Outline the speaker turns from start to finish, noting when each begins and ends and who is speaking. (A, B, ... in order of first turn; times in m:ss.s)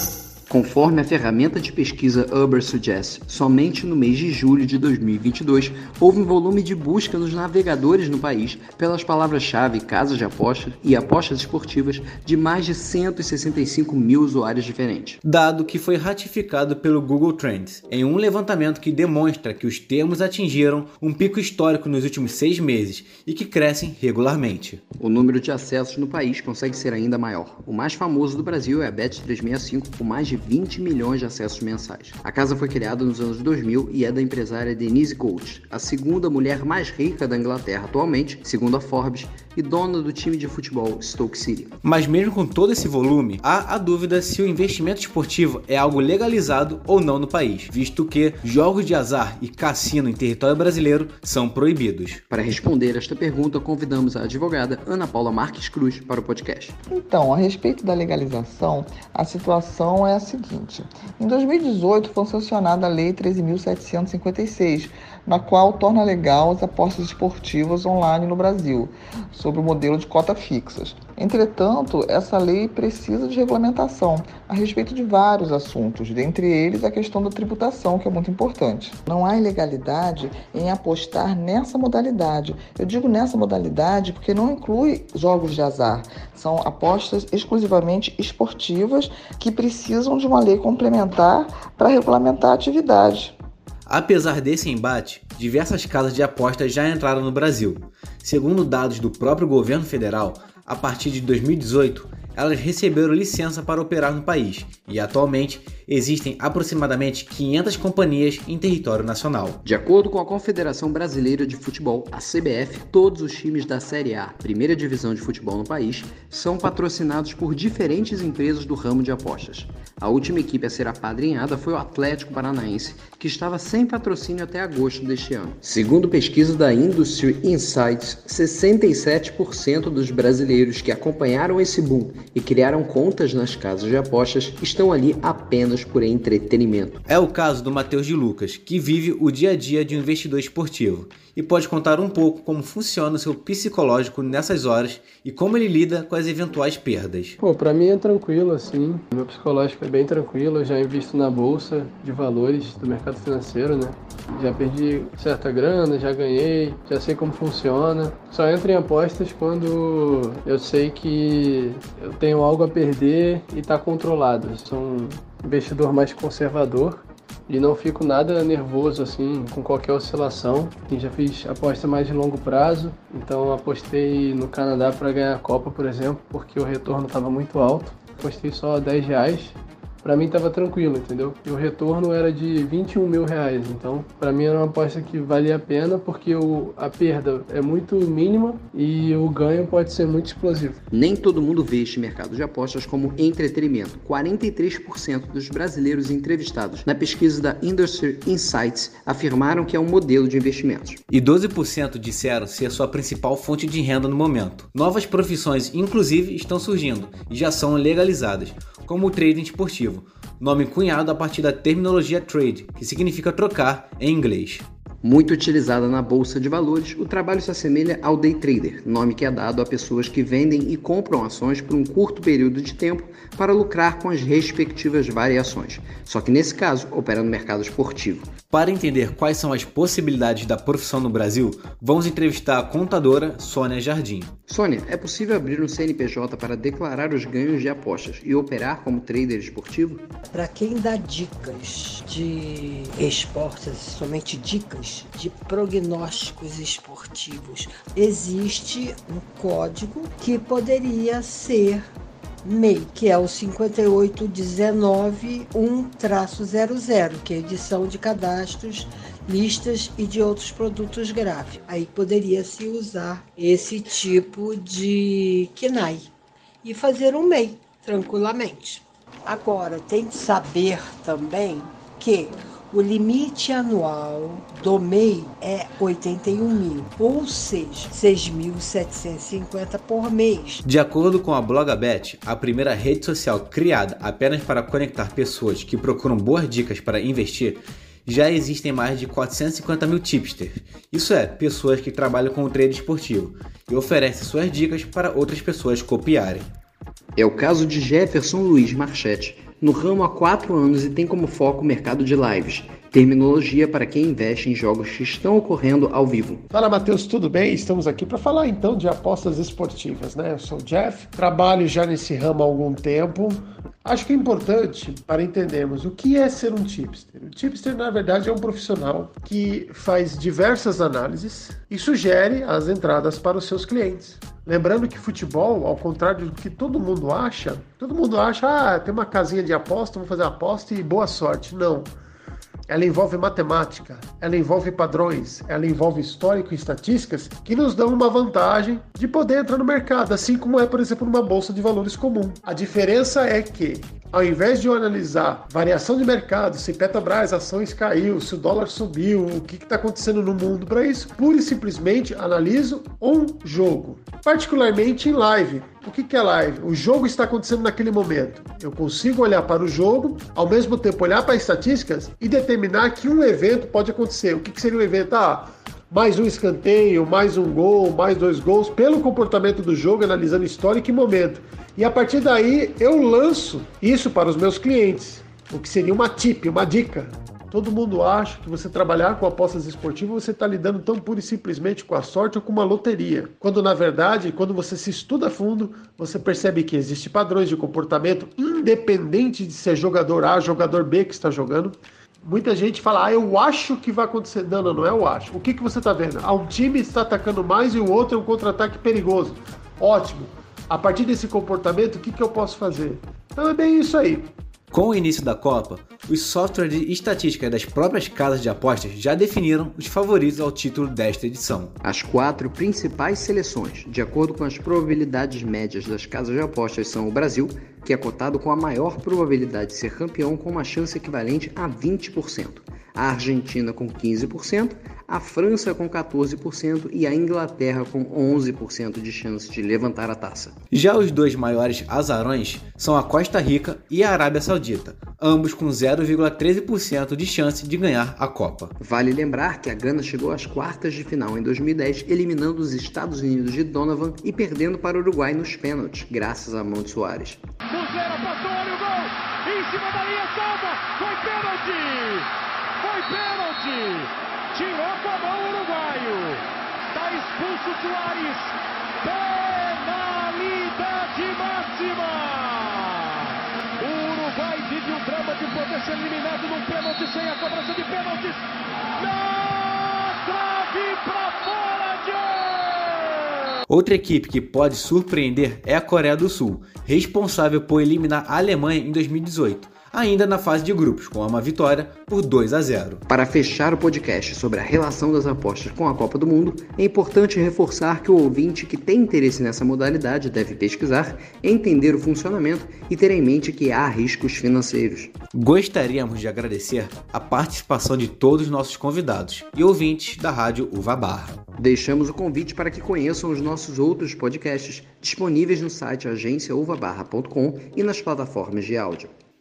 0:00.5-0:15.2 A
0:15.2-0:24.8 B
0:25.0-0:41.7 A
0:41.8-0:52.2 B
0:52.3-0:56.7 A
0:56.9-1:33.3 C
1:33.8-1:49.6 B
1:49.6-2:17.0 A
2:17.1-2:27.4 B
2:27.4-3:10.8 D
3:10.9-3:21.0 A
3:21.1-3:34.6 B
3:35.0-3:48.3 A
3:48.5-3:54.3 B
3:54.5-4:00.1 A
4:00.3-4:11.9 E
4:12.4-4:26.1 E
4:26.6-4:40.6 E
4:40.6-4:56.5 B
4:57.2-5:06.4 A
5:06.5-5:31.9 F
5:32.7-6:44.3 F
6:44.7-6:51.7 B
6:51.8-7:10.5 A
7:10.7-7:18.7 B
7:18.8-7:27.4 A
7:27.7-7:32.3 G
7:32.8-7:48.4 G
7:49.0-7:53.6 G
7:53.7-8:03.0 B
8:03.1-8:15.1 A
8:15.3-8:21.4 B
8:21.6-8:29.1 A